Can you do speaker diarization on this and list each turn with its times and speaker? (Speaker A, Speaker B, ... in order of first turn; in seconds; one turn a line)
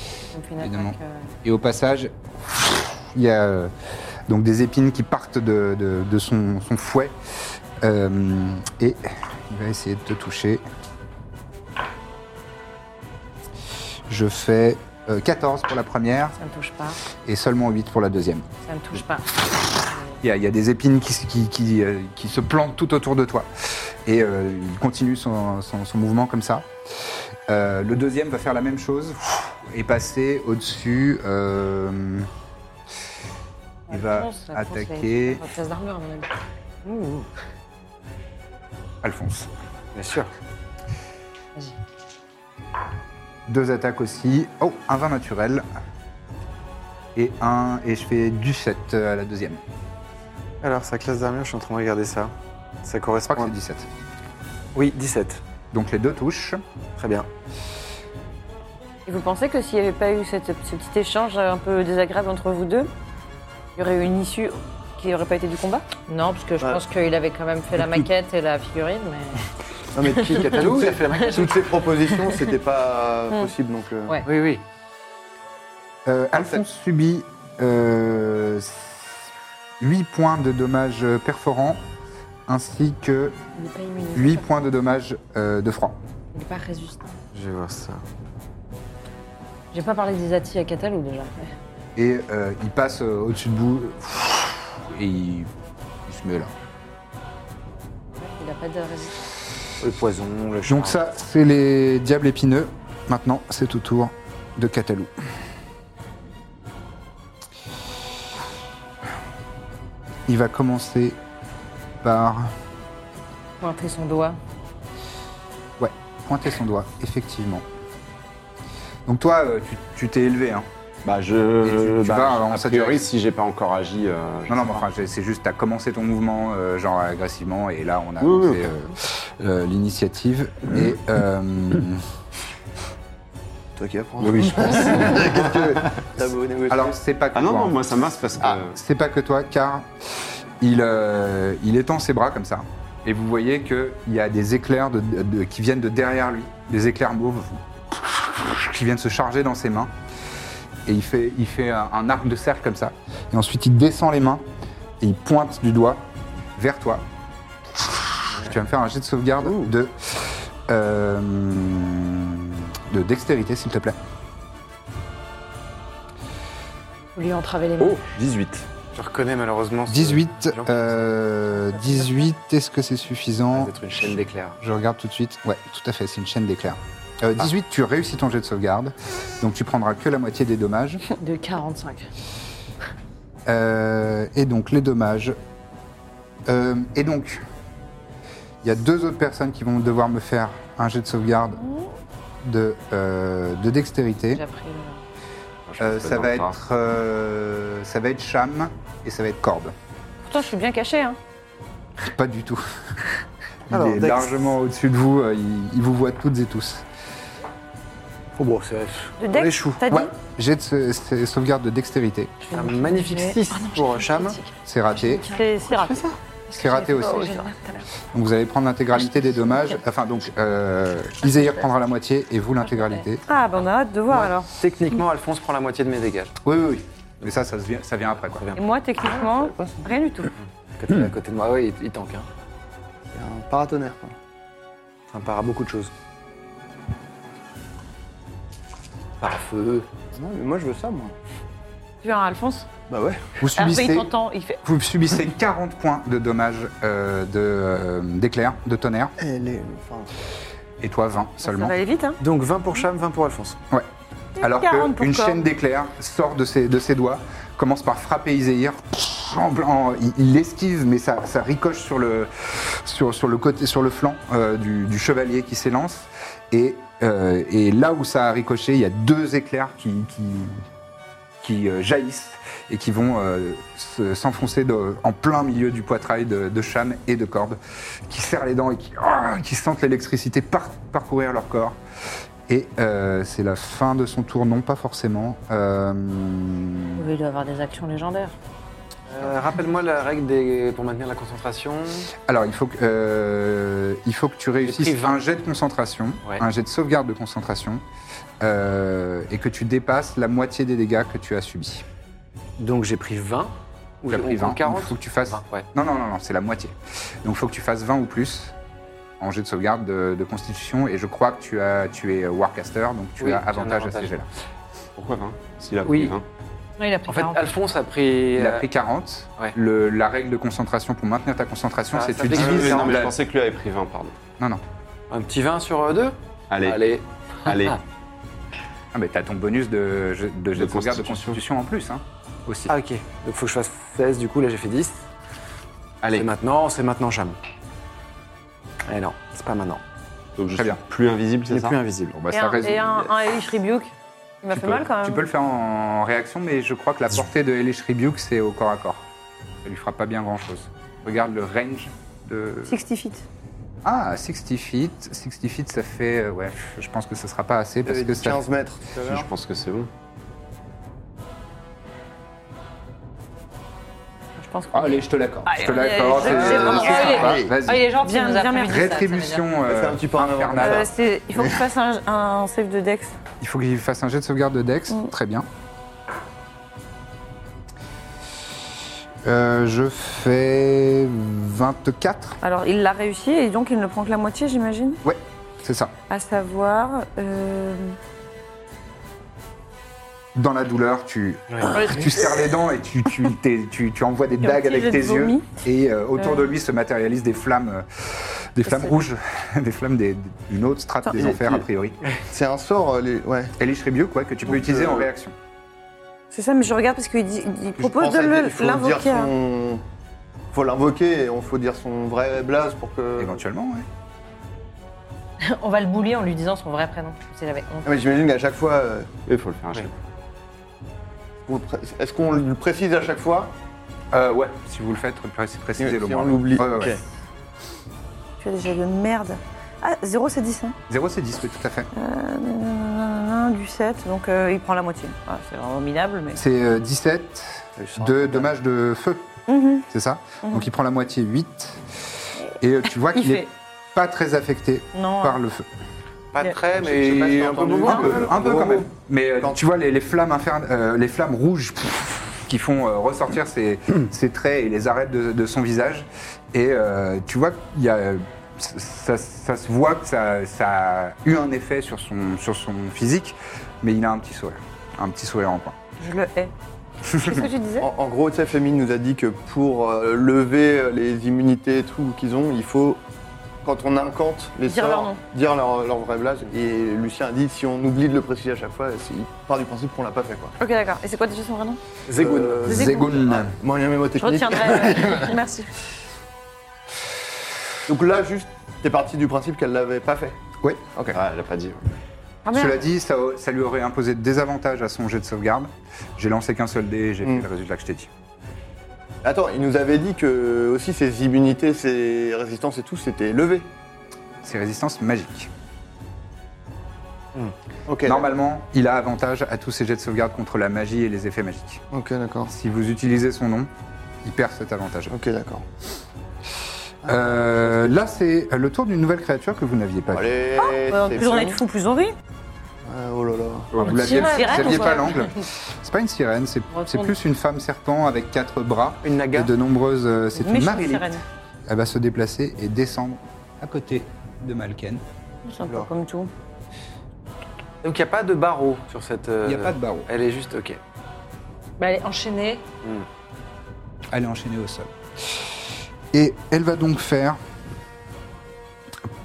Speaker A: 0.3-1.3
Speaker B: 0.6-3.7
Speaker B: 4.3-7.1
Speaker B: 7.8-10.6
Speaker B: 14.1-16.4
Speaker A: 16.4-17.0
Speaker B: 17.2-18.5
Speaker A: 18.6-20.2
Speaker B: 20.2-26.7
Speaker B: 27.5-32.3
Speaker A: 33.9-36.3
Speaker B: 33.9-35.4
Speaker A: 36.8-37.3
Speaker B: 39.0-39.5
Speaker C: 39.9-40.3
Speaker B: 43.5-45.6
Speaker B: 47.1-49.6
Speaker C: 50.6-53.5
Speaker B: 53.2-53.9
Speaker C: 54.7-55.4
Speaker B: 55.7-56.6
Speaker C: 57.0-57.3
Speaker D: 59.0-62.9
Speaker D: 63.8-65.8
Speaker A: 66.1-69.4
Speaker E: 69.9-74.2
Speaker A: 70.2-70.6
Speaker C: 70.3-71.7
Speaker A: 71.2-71.5
Speaker A: 72.1-72.3
Speaker C: 74.2-74.6
Speaker B: 76.0-81.8
Speaker E: 76.3-76.6
Speaker B: 82.5-83.4
Speaker A: 83.5-84.4
Speaker B: 84.1-86.0
Speaker A: 86.3-87.2
Speaker C: 87.3-88.0
Speaker A: 89.7-91.5
Speaker B: 92.0-95.5
Speaker B: 96.0-96.5
Speaker A: 98.2-99.2
Speaker C: 99.8-101.0
Speaker B: 100.7-105.1
Speaker B: 110.3-111.2
Speaker B: 112.0-112.5
Speaker A: 113.6-114.4
Speaker B: 115.8-117.6
Speaker B: 119.0-120.7
Speaker F: 121.0-124.8
Speaker B: 121.6-123.0
Speaker B: 124.5-132.0
Speaker F: 128.2-128.7
Speaker E: 133.8-136.9
Speaker F: 134.2-135.2
Speaker B: 136.7-137.8
Speaker F: 137.3-138.8
Speaker B: 138.7-139.9
Speaker B: 140.6-149.9
Speaker B: 150.8-154.4
Speaker B: 155.0-157.0
Speaker B: 157.8-164.0
Speaker A: 167.1-168.0
Speaker F: 167.8-168.7
Speaker C: 168.9-170.9
Speaker B: 169.9-181.0
Speaker C: 173.5-174.6
Speaker A: 181.2-182.1
Speaker B: 183.4-185.3
Speaker B: 186.4-187.4
Speaker B: 188.6-191.6
Speaker B: 192.4-194.4
Speaker A: 194.3-195.0
Speaker F: 195.7-196.6
Speaker B: 195.8-199.7
Speaker D: 200.2-201.2
Speaker B: 202.0-202.6
Speaker B: 203.7-206.8
Speaker C: 203.7-204.3
Speaker C: 208.3-209.8
Speaker D: 209.2-210.1
Speaker B: 209.9-212.3
Speaker A: 212.4-217.8
Speaker C: 212.5-214.4
Speaker B: 214.7-215.2
Speaker D: 215.2-216.1
Speaker B: 216.5-217.3
Speaker D: 217.0-217.6
Speaker B: 218.1-223.2
Speaker A: 222.7-223.0
Speaker D: 223.2-224.5
Speaker C: 224.1-226.3
Speaker B: 226.4-228.4
Speaker C: 228.2-228.6
Speaker D: 228.6-230.3
Speaker E: 229.4-229.8
Speaker C: 230.7-232.3
Speaker E: 233.1-234.1
Speaker C: 235.1-235.9
Speaker C: 239.2-239.9
Speaker E: 240.1-241.1
Speaker D: 242.0-242.7
Speaker E: 242.9-243.3
Speaker B: 243.4-244.1
Speaker D: 243.5-244.6
Speaker B: 244.6-249.1
Speaker E: 249.2-250.1
Speaker B: 250.8-251.7
Speaker D: 251.4-252.2
Speaker C: 252.2-253.6
Speaker D: 254.4-255.4
Speaker B: 254.4-270.6
Speaker B: 271.4-281.8
Speaker B: 282.5-287.0
Speaker A: 287.0-288.4
Speaker C: 289.1-292.1
Speaker B: 292.2-297.8
Speaker C: 294.6-295.2
Speaker B: 298.4-301.8
Speaker C: 302.6-305.7
Speaker B: 304.1-308.5
Speaker B: 309.2-314.3
Speaker C: 313.2-314.1
Speaker F: 314.9-316.2
Speaker C: 315.8-316.1
Speaker A: 316.8-317.4
Speaker C: 317.1-318.7
Speaker B: 318.4-323.1
Speaker C: 321.9-323.0
Speaker F: 322.3-324.1
Speaker C: 325.1-327.8
Speaker F: 326.5-327.8
Speaker B: 328.9-332.7
Speaker F: 330.6-331.4
Speaker C: 332.7-335.0
Speaker F: 336.0-336.3
Speaker C: 336.1-337.4
Speaker C: 338.9-339.8
Speaker F: 340.4-341.8
Speaker B: 340.5-340.8
Speaker C: 341.5-342.2
Speaker B: 342.1-343.1
Speaker D: 342.3-343.9
Speaker D: 344.4-345.2
Speaker B: 344.5-349.0
Speaker B: 349.6-352.8
Speaker D: 352.6-353.2
Speaker B: 353.8-358.4
Speaker E: 357.9-359.3
Speaker F: 359.0-359.9
Speaker D: 364.4-368.9
Speaker B: 364.7-367.9
Speaker E: 366.2-367.5
Speaker A: 366.6-369.5
Speaker B: 368.6-370.9
Speaker E: 369.6-371.6
Speaker D: 370.6-373.1
Speaker B: 373.4-375.5
Speaker B: 379.2-382.4
Speaker D: 382.4-385.0
Speaker B: 385.0-385.9
Speaker D: 386.1-388.0
Speaker B: 390.3-402.0
Speaker D: 391.8-392.1
Speaker D: 394.4-395.5
Speaker D: 398.6-398.9
Speaker E: 401.2-401.6
Speaker E: 402.3-403.5
Speaker B: 403.6-405.3
Speaker E: 404.4-405.1
Speaker D: 406.3-409.3
Speaker E: 407.8-409.8
Speaker E: 410.5-413.4
Speaker B: 413.2-413.9
Speaker A: 415.4-417.9
Speaker E: 417.8-419.1
Speaker F: 419.3-419.9
Speaker E: 421.4-423.5
Speaker B: 424.1-427.0
Speaker E: 425.8-427.0
Speaker D: 428.4-430.8
Speaker B: 430.9-431.9
Speaker D: 431.9-436.4
Speaker B: 436.3-439.3
Speaker E: 437.8-438.4
Speaker D: 439.5-439.8
Speaker B: 439.9-445.7
Speaker D: 443.1-443.5
Speaker D: 444.9-445.4
Speaker C: 446.3-448.6
Speaker E: 446.7-448.9
Speaker B: 447.8-465.8
Speaker D: 466.0-466.5
Speaker B: 467.1-467.4
Speaker D: 467.2-467.9
Speaker E: 467.8-473.0
Speaker E: 473.6-480.6
Speaker D: 474.7-475.2
Speaker D: 480.6-481.8
Speaker C: 482.1-482.9
Speaker E: 482.1-485.4
Speaker B: 482.6-483.5
Speaker D: 482.7-483.1
Speaker D: 484.2-485.7
Speaker E: 487.9-490.4
Speaker F: 491.1-491.8
Speaker D: 492.4-492.8
Speaker B: 492.5-498.1
Speaker E: 499.2-503.7
Speaker B: 504.4-505.5
Speaker E: 507.9-508.2
Speaker B: 508.0-511.8
Speaker E: 511.9-512.5
Speaker B: 512.5-513.7
Speaker B: 514.2-515.1
Speaker E: 515.1-515.6
Speaker E: 517.0-518.0
Speaker B: 517.0-520.3
Speaker E: 520.1-521.6
Speaker D: 520.6-522.1
Speaker E: 522.8-523.7
Speaker B: 523.7-531.1
Speaker A: 523.8-525.2
Speaker D: 524.0-525.2
Speaker A: 526.7-527.1
Speaker C: 529.0-529.5
Speaker D: 530.4-531.2
Speaker B: 531.7-535.0
Speaker D: 535.4-536.3
Speaker C: 537.8-540.8
Speaker B: 539.4-540.1
Speaker A: 541.8-542.6
Speaker B: 544.1-544.9
Speaker B: 546.1-547.4